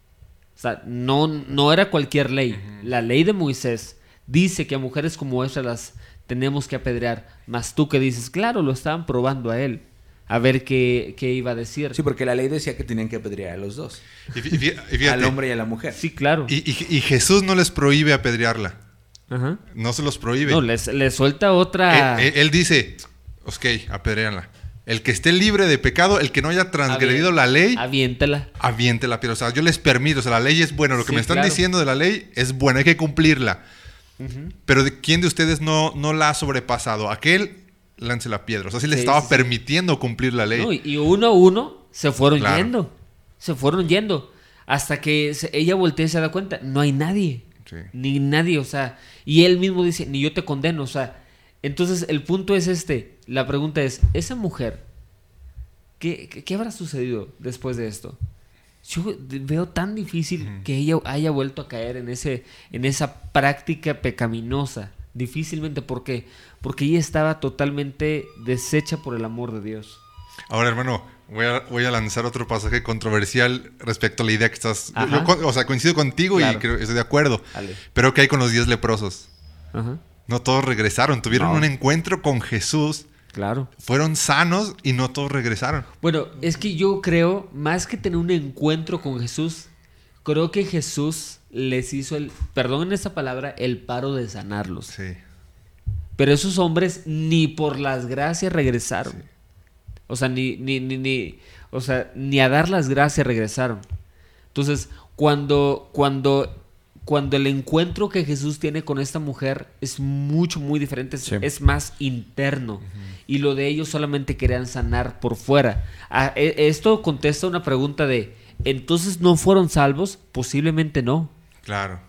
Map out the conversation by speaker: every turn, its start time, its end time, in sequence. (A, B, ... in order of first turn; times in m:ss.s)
0:00.6-0:12.0 A
0:02.5-0:02.9 B
0:11.9-0:14.0 C
0:14.3-0:15.4 B
0:15.0-0:16.0 C
0:16.0-0:16.5 A
0:16.5-0:18.8 B
0:19.3-0:19.6 A
0:19.7-0:20.6 B
0:20.5-0:22.3 A
0:21.9-0:27.8 B
0:26.9-0:28.5 A
0:28.6-0:33.6 B
0:31.0-0:31.6 A
0:34.2-0:34.5 A
0:34.7-0:40.7 B
0:38.9-0:39.5 A
0:40.5-0:54.8 A
0:42.4-0:42.7 B
0:47.7-0:47.9 B
0:56.0-0:58.2 A
0:58.8-1:10.0 A
1:10.5-1:19.3 B
1:15.0-1:15.3 A
1:16.3-1:16.6 A
1:17.5-1:17.8 A
1:19.7-1:20.0 A
1:20.3-1:23.1 B
1:21.3-1:21.7 A
1:23.3-1:23.7 A
1:23.8-1:25.9 B
1:26.0-1:29.7 A
1:30.2-1:34.9 A
1:34.9-1:35.2 B
1:36.2-1:39.2 A
1:40.1-1:43.8 A
1:44.5-2:01.3 A
2:01.6-2:02.0 B